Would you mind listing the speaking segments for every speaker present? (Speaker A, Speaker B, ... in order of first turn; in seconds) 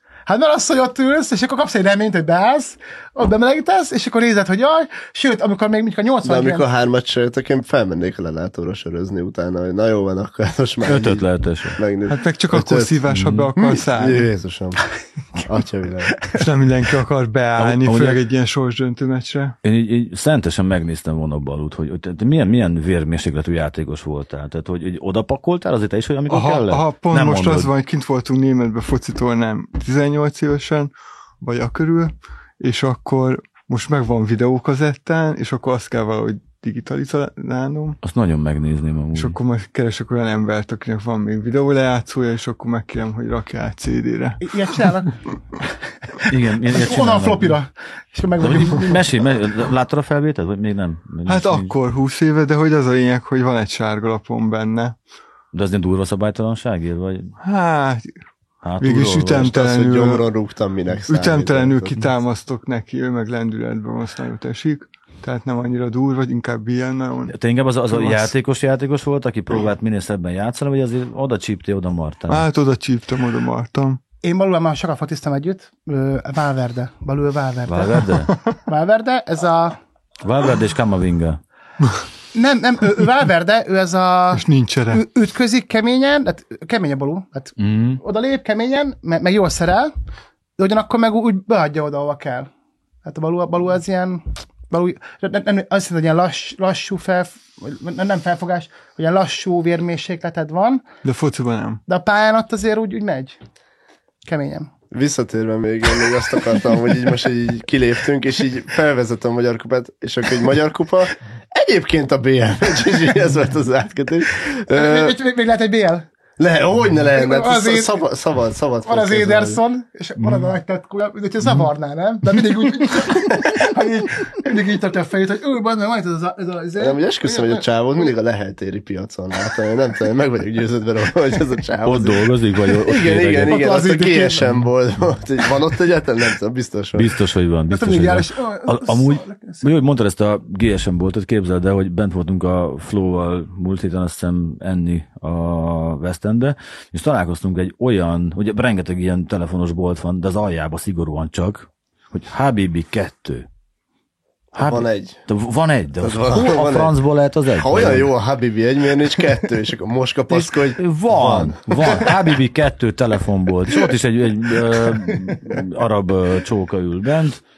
Speaker A: 0.3-6.7, 44.4-45.2, 46.2-49.0, 74.2-78.1, 78.7-79.8, 82.3-89.9, 90.6-92.5, 93.0-100.8, 101.9-103.4, 104.2-104.7, 114.7-116.0, 117.1-118.0, 118.8-127.7, 133.5-134.5, 137.7-139.7
Speaker B: 6.2-13.0, 13.6-14.8, 15.4-16.2, 59.4-62.1, 104.9-115.2, 116.4-119.6, 126.8-137.1, 154.5-155.2, 156.0-156.9, 157.5-162.1
Speaker C: 10.8-11.8, 13.1-13.5, 17.6-18.2, 19.6-27.7, 38.0-39.4, 46.2-47.6, 48.4-51.8, 55.5-57.3, 58.6-59.5, 67.3-72.5, 77.7-78.3, 80.2-81.4, 87.6-88.0, 131.8-133.6, 136.9-153.5, 154.5-158.1, 160.3-167.4
Speaker D: 12.1-14.3, 16.3-19.6, 26.3-38.0, 39.1-44.8, 51.2-55.0, 57.4-58.2, 58.8-60.2, 61.1-67.3, 67.9-68.3, 72.3-74.0, 78.3-78.6, 84.3-85.0, 101.0-101.8